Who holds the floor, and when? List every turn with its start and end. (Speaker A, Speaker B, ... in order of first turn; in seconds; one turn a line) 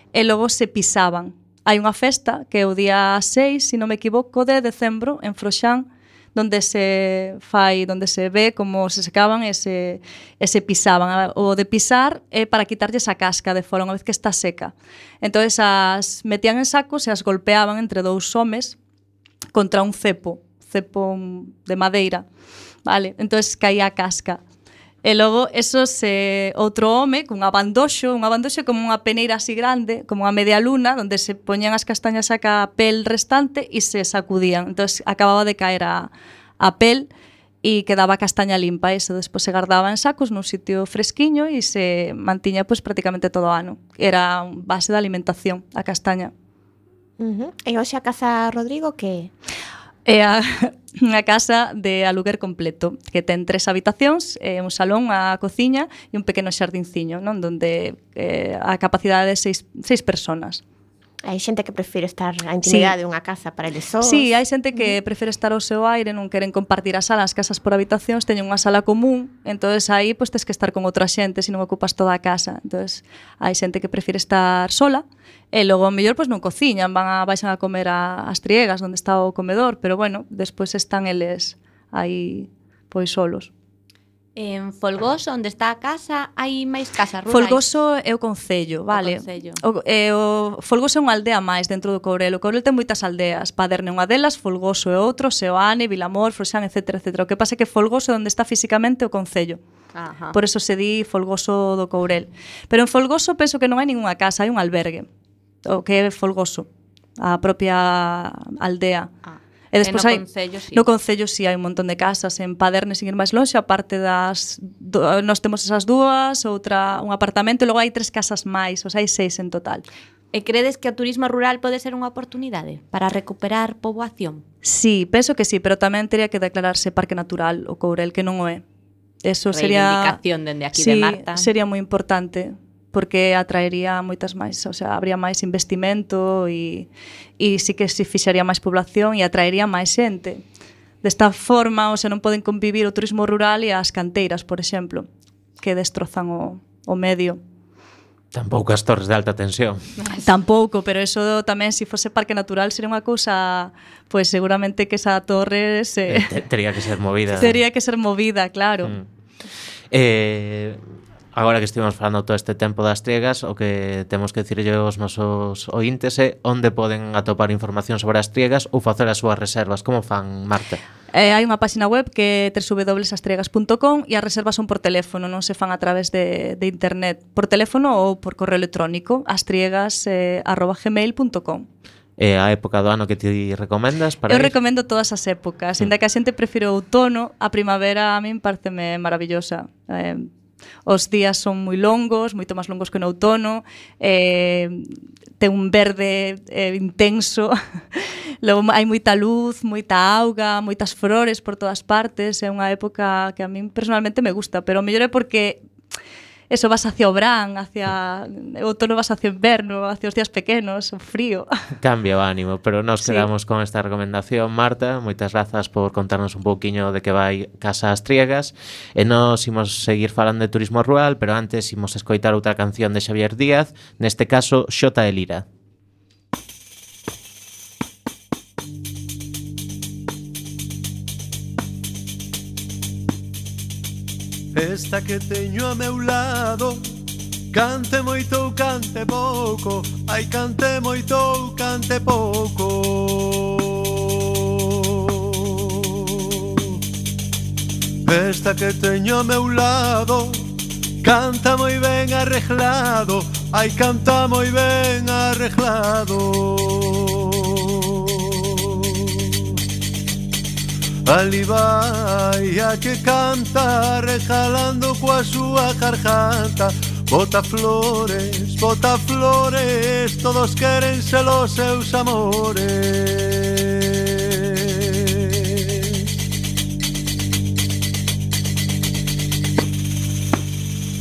Speaker A: 0.1-18.8
Speaker A: 19.5-22.2
Speaker A: 22.9-24.4
Speaker A: 25.0-37.1
Speaker A: 37.6-46.3
Speaker B: 47.2-49.3
Speaker A: 50.0-60.6
Speaker B: 61.2-65.0
Speaker A: 62.6-62.9
Speaker A: 64.0-83.5
Speaker C: 84.3-87.7
Speaker A: 87.3-99.6
Speaker C: 88.9-89.6
Speaker C: 99.9-100.3
Speaker A: 100.3-105.1
Speaker A: 105.6-106.7
Speaker A: 107.2-109.1
Speaker C: 109.2-110.8
Speaker A: 109.7-110.2
Speaker A: 110.7-119.8
Speaker C: 120.3-124.4
Speaker A: 124.6-128.6
Speaker A: 129.2-130.2
Speaker C: 129.5-131.5
Speaker A: 130.8-136.9
Speaker A: 137.4-140.4
Speaker A: 141.0-145.1
Speaker A: 145.6-147.4
Speaker D: 148.3-149.8
Speaker A: 150.2-156.3
Speaker D: 156.1-157.6
Speaker A: 157.3-158.9
Speaker D: 159.9-160.8
Speaker D: 161.3-170.8
Speaker A: 171.1-181.7
Speaker D: 182.2-184.5
Speaker A: 184.3-190.3
Speaker A: 190.8-194.9
Speaker A: 195.4-205.6
Speaker A: 206.5-211.5
Speaker D: 211.8-225.4
Speaker A: 213.0-213.3
Speaker E: 234.5-236.8
Speaker E: 237.5-244.7
Speaker E: 245.3-246.7
Speaker E: 248.0-250.5
Speaker E: 251.0-259.3
Speaker E: 261.1-274.9